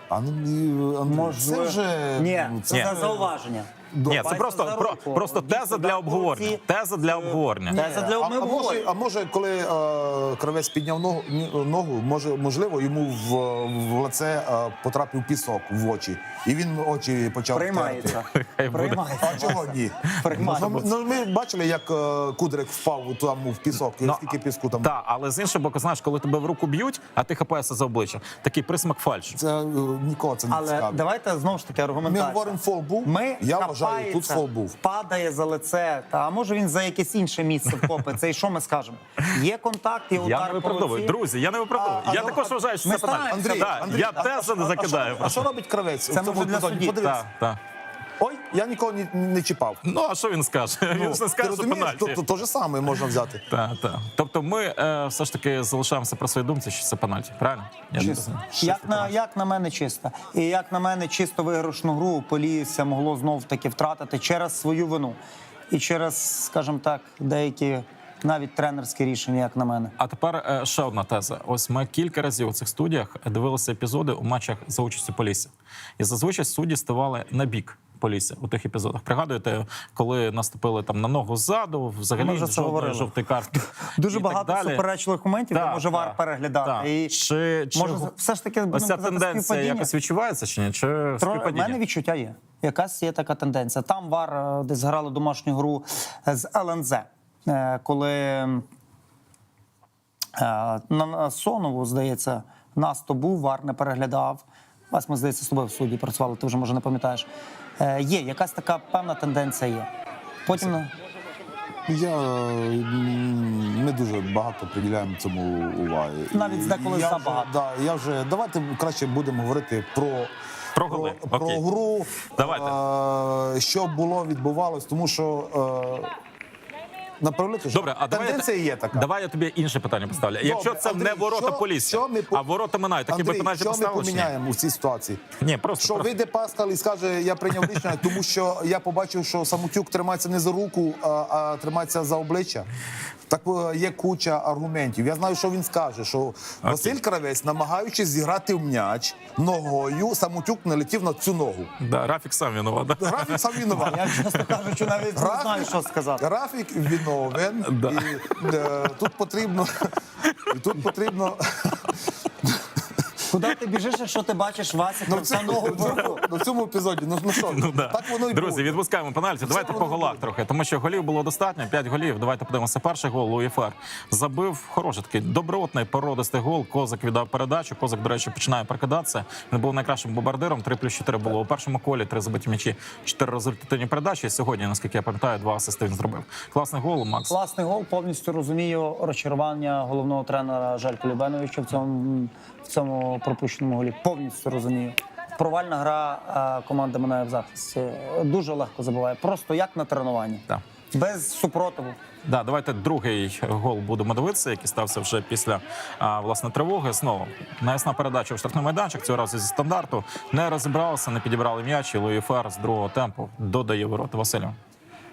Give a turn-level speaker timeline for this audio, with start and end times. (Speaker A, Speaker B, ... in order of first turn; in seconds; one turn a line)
Speaker A: 0.1-3.4
Speaker B: 1.1-8.9
Speaker C: 2.7-3.0
Speaker A: 3.9-4.4
Speaker C: 4.1-7.8
Speaker A: 7.7-18.2
Speaker B: 17.5-20.9
Speaker C: 18.4-19.4
Speaker A: 19.2-24.9
Speaker C: 20.3-20.8
Speaker C: 24.0-24.3
Speaker C: 24.8-29.4
Speaker A: 29.3-31.0
Speaker B: 30.5-41.1
Speaker A: 32.1-34.8
Speaker C: 40.2-45.5
Speaker B: 41.8-44.5
Speaker A: 43.3-47.3
Speaker B: 46.1-47.0
Speaker C: 47.0-47.6
Speaker A: 48.2-49.8
Speaker C: 49.8-52.2
Speaker A: 50.9-53.4
Speaker C: 53.5-58.5
Speaker A: 58.0-59.1
Speaker B: 58.6-65.2
Speaker B: 65.7-69.9
Speaker C: 70.0-84.8
Speaker B: 82.2-87.2
Speaker C: 85.5-88.1
Speaker B: 87.7-89.9
Speaker C: 88.7-91.8
Speaker B: 91.2-98.7
Speaker B: 100.4-107.3
Speaker B: 107.8-109.9
Speaker B: 110.5-110.9
Speaker A: 111.9-120.3
Speaker B: 116.3-117.5
Speaker C: 120.8-121.6
Speaker A: 120.9-126.1
Speaker C: 122.3-122.8
Speaker A: 127.2-129.1
Speaker C: 127.7-134.3
Speaker A: 130.4-132.4
Speaker A: 133.1-135.2
Speaker C: 135.4-136.1
Speaker A: 135.8-142.7
Speaker C: 137.6-137.9
Speaker A: 143.3-151.7
Speaker C: 146.6-146.9
Speaker C: 151.8-154.0
Speaker A: 153.0-154.1
Speaker B: 153.8-156.2
Speaker A: 155.1-159.9
Speaker C: 157.6-158.3
Speaker A: 160.5-162.8
Speaker B: 163.3-166.2
Speaker A: 165.1-168.8
Speaker C: 167.4-187.3
Speaker A: 169.4-170.3
Speaker B: 187.3-202.0
Speaker C: 202.2-214.6